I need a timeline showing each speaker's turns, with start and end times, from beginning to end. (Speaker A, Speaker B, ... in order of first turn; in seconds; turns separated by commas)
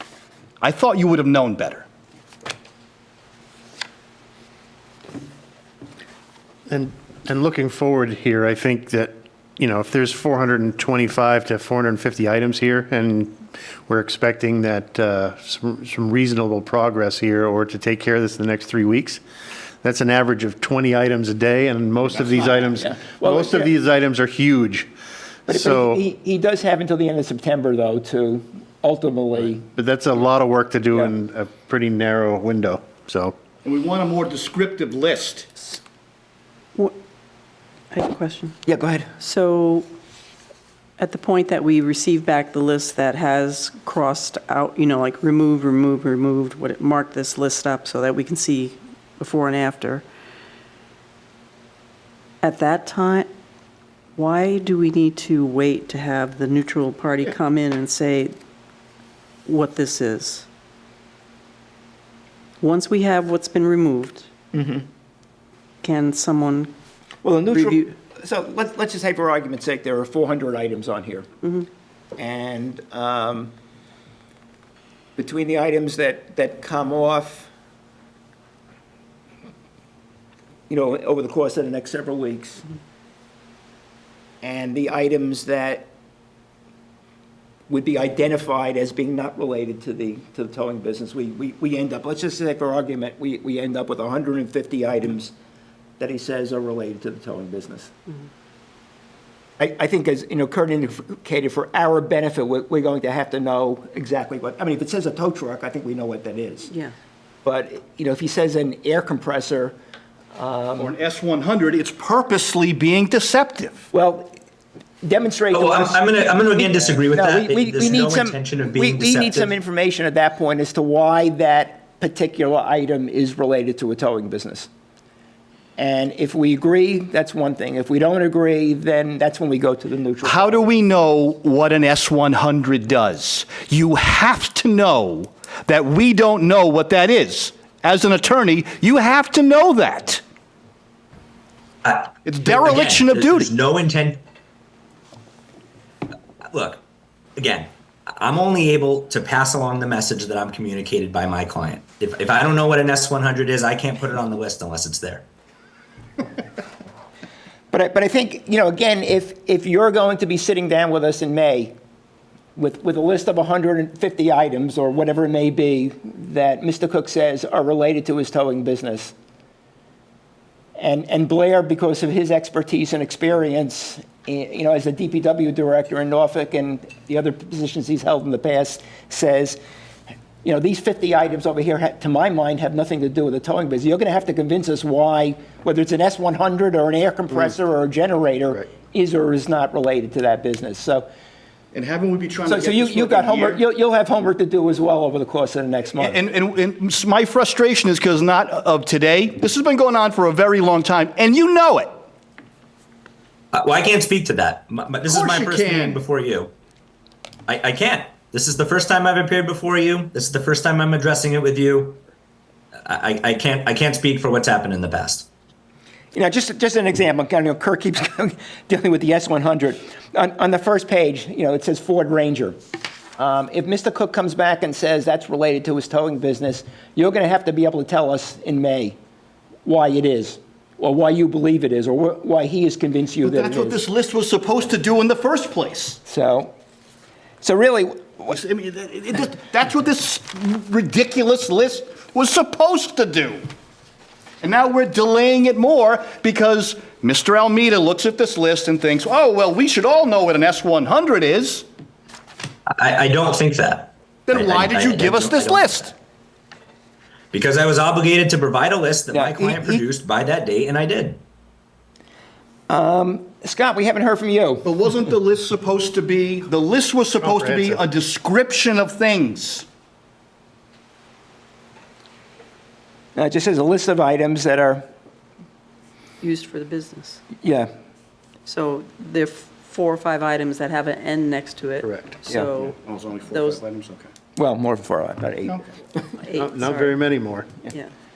Speaker A: 0.6-1.9, Speaker B: 6.7-19.2, Speaker B: 19.8-24.9, Speaker C: 22.1-23.7, Speaker C: 25.5-29.7, Speaker B: 25.5-26.0, Speaker B: 29.7-33.3, Speaker A: 33.6-35.5, Speaker D: 37.9-38.5, Speaker C: 38.6-39.1, Speaker D: 39.2-39.9, Speaker D: 41.0-50.0, Speaker D: 52.4-53.3, Speaker D: 54.1-58.4, Speaker D: 59.5-60.5, Speaker D: 62.6-64.3, Speaker C: 64.5-64.9, Speaker D: 65.8-66.7, Speaker C: 67.2-71.3, Speaker D: 67.5-67.9, Speaker C: 72.2-73.5, Speaker C: 75.2-77.5, Speaker C: 80.7-82.7, Speaker C: 84.4-85.9, Speaker C: 87.7-95.3, Speaker C: 96.0-97.9, Speaker C: 99.6-106.7, Speaker D: 106.7-106.9, Speaker C: 107.4-109.7, Speaker C: 110.3-110.9, Speaker A: 110.8-113.8, Speaker C: 113.9-114.4, Speaker C: 115.0-124.7, Speaker E: 115.5-119.5, Speaker C: 125.8-130.7, Speaker A: 130.2-140.2, Speaker E: 141.8-144.2, Speaker A: 142.2-143.5, Speaker E: 146.5-146.8, Speaker E: 147.4-155.2, Speaker C: 157.7-161.7, Speaker C: 162.6-169.1, Speaker C: 170.8-179.6, Speaker C: 180.4-191.1, Speaker A: 191.7-193.6, Speaker C: 192.4-196.2, Speaker A: 196.0-202.0, Speaker E: 203.5-206.5, Speaker A: 205.1-206.0, Speaker E: 207.5-212.0, Speaker E: 212.8-215.3, Speaker C: 216.1-222.6, Speaker C: 223.2-229.0, Speaker C: 229.6-233.8, Speaker A: 233.2-236.0, Speaker C: 236.1-236.5, Speaker C: 237.4-238.4, Speaker A: 238.3-243.4, Speaker A: 244.4-251.7, Speaker E: 252.7-255.9, Speaker A: 254.3-255.9, Speaker E: 257.3-261.2, Speaker C: 259.1-259.8, Speaker C: 262.7-264.7, Speaker A: 264.6-269.6, Speaker C: 273.1-274.8, Speaker D: 276.2-277.2, Speaker C: 277.4-277.7, Speaker D: 278.4-283.6, Speaker B: 281.8-282.1, Speaker A: 282.8-284.1, Speaker C: 284.4-285.6, Speaker D: 286.2-287.1, Speaker B: 286.4-287.5